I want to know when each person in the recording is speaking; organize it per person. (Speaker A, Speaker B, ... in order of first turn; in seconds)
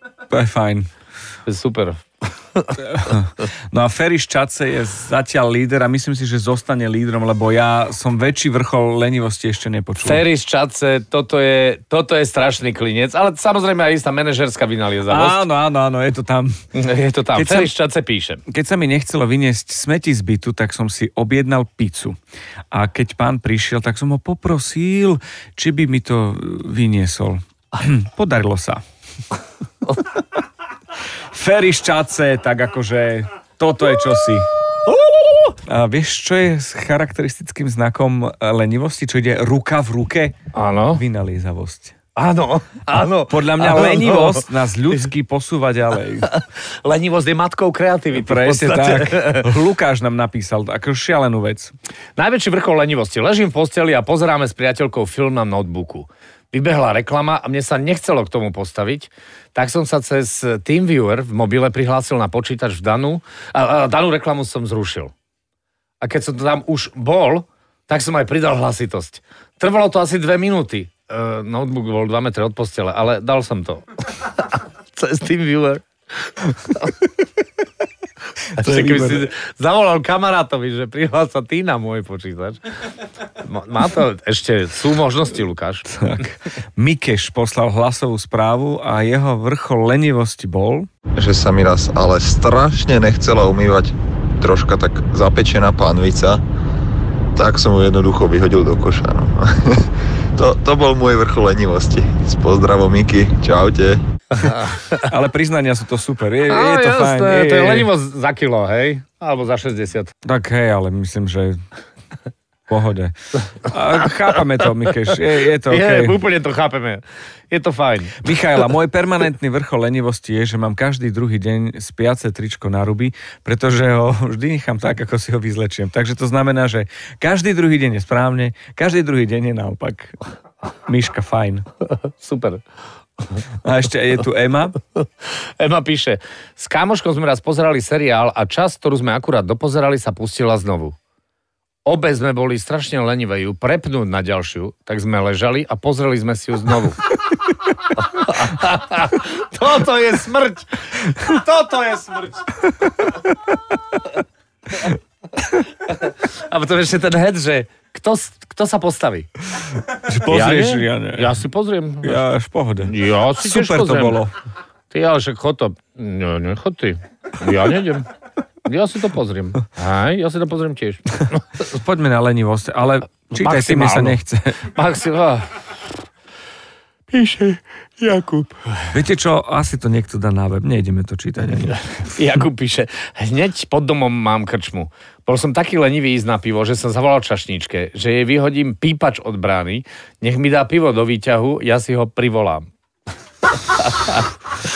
Speaker A: 0.3-0.9, 2.8-10.2, 15.1-16.5, 17.3-17.7, 18.5-22.1, 22.7-28.8, 31.3-34.5, 35.6-40.3, 40.9-41.9, 43.3-46.3, 48.2-51.7, 78.6-79.2, 86.0-90.9, 105.0-107.9, 110.2-111.6, 112.7-116.2, 118.2-130.1, 130.9-131.7, 133.6-134.8, 160.1-161.3, 162.0-164.3, 171.6-174.7, 178.9-181.8
Speaker B: 1.4-2.7, 10.0-15.4, 16.7-18.4, 34.9-35.5, 40.5-41.0, 42.1-44.4, 46.2-49.5, 52.1-65.1, 66.0-76.9, 78.5-82.6, 83.4-86.0, 106.5-110.1, 115.7-118.2, 131.9-132.6, 135.6-140.9, 141.8-147.1, 147.8-152.4, 155.4-159.3, 160.3-162.2, 162.8-164.2, 164.9-168.1, 168.6-171.4, 173.3-175.5, 177.1-178.6, 182.0-192.7, 193.6-194.3
Speaker C: 91.2-96.4, 97.3-104.0